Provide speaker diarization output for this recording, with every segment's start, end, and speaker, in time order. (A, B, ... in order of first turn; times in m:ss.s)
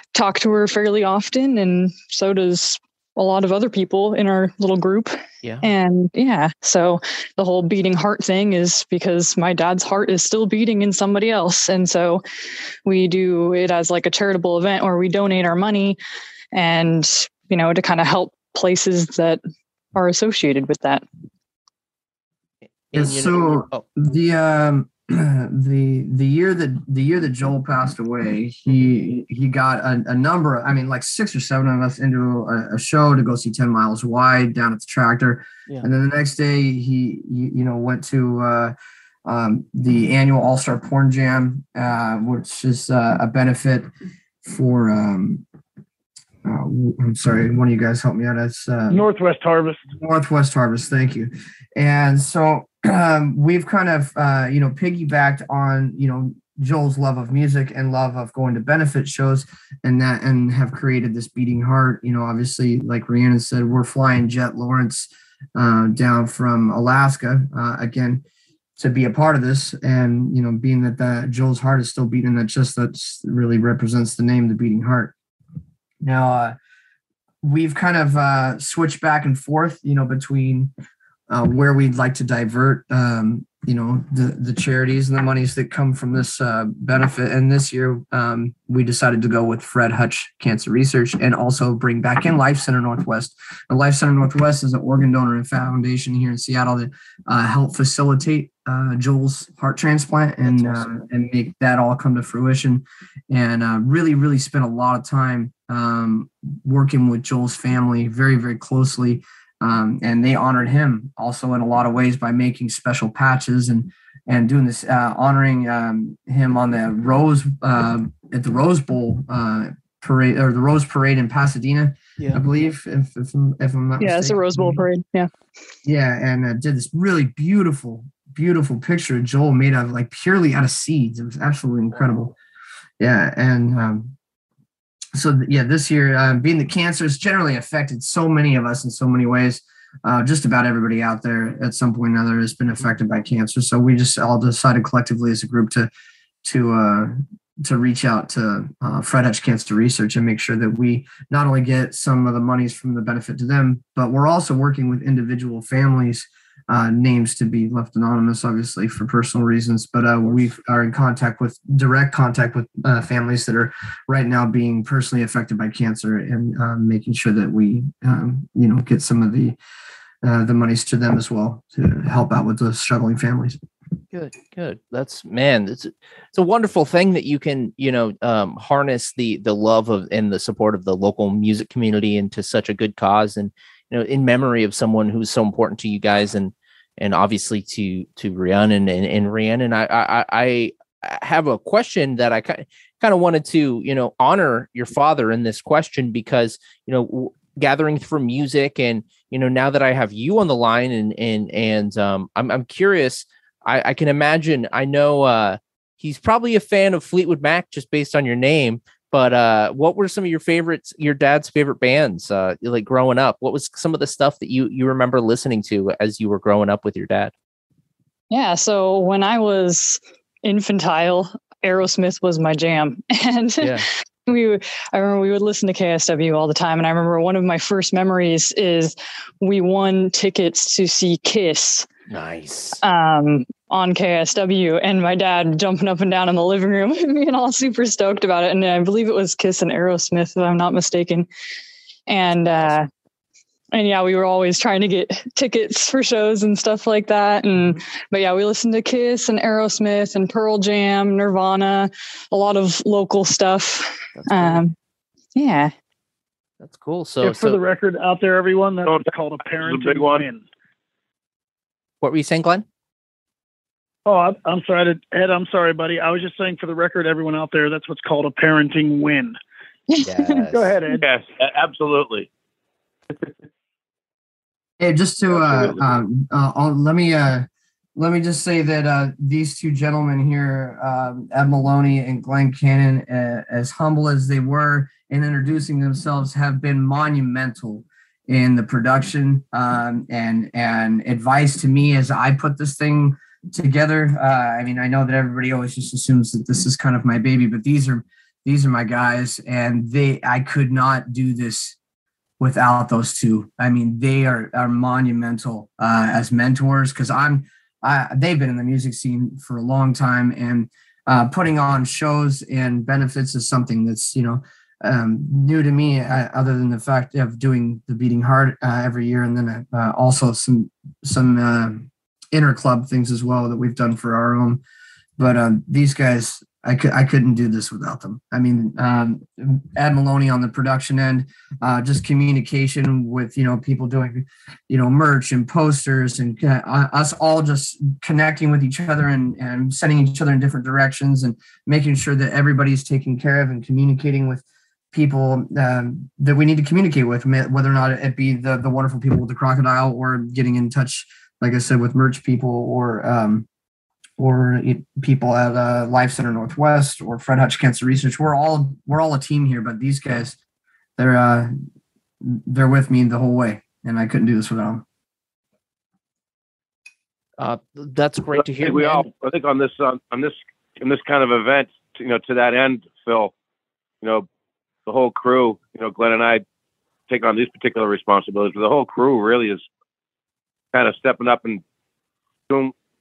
0:00.1-0:12.2 A
0:12.8-0:16.0 A
0:16.5-0:19.4 A
0:20.0-0:21.0 A
0:22.9-0:23.8 B
0:22.9-0:38.8 C
0:39.3-0:43.9 C
0:44.4-0:45.4 C
0:46.4-0:49.0 C
0:48.9-0:49.8 D
0:49.9-1:08.2 C
1:08.8-1:15.1 C
1:16.0-1:16.6 C
1:17.4-1:20.7 C
1:21.3-2:04.9 C
1:40.5-1:40.9 B
2:04.0-2:05.3 A
2:05.8-2:12.4 C
2:13.0-2:14.2 C
2:15.2-2:25.9 C
2:26.4-2:49.6 C
2:50.2-2:53.6 C
2:54.1-3:37.3 B
3:38.3-3:51.9 A
3:52.1-3:52.8 B
3:52.8-4:01.3 A
4:02.1-4:02.9 A
4:03.7-4:14.7 A
4:07.6-4:07.8 B
4:14.2-4:14.6 B
4:15.4-4:15.7 A
4:16.6-4:17.6 B
4:17.2-4:20.4 D
4:18.9-4:20.2 E
4:22.0-4:22.6 B
4:24.1-4:29.4 D
4:29.9-4:30.4 A
4:30.0-4:30.7 B
4:30.5-4:31.0 D
4:31.0-4:32.3 E
4:34.8-5:01.8 C
4:35.3-4:36.0 E
5:02.4-5:24.6 C
5:25.2-5:53.5 C
5:54.2-6:00.4 C
6:01.0-6:01.5 C
6:02.2-6:04.8 C
6:07.4-6:09.1 B
6:08.4-6:13.3 E
6:14.9-6:16.4 E
6:17.1-6:19.6 E
6:20.7-6:21.6 E
6:22.5-6:22.7 E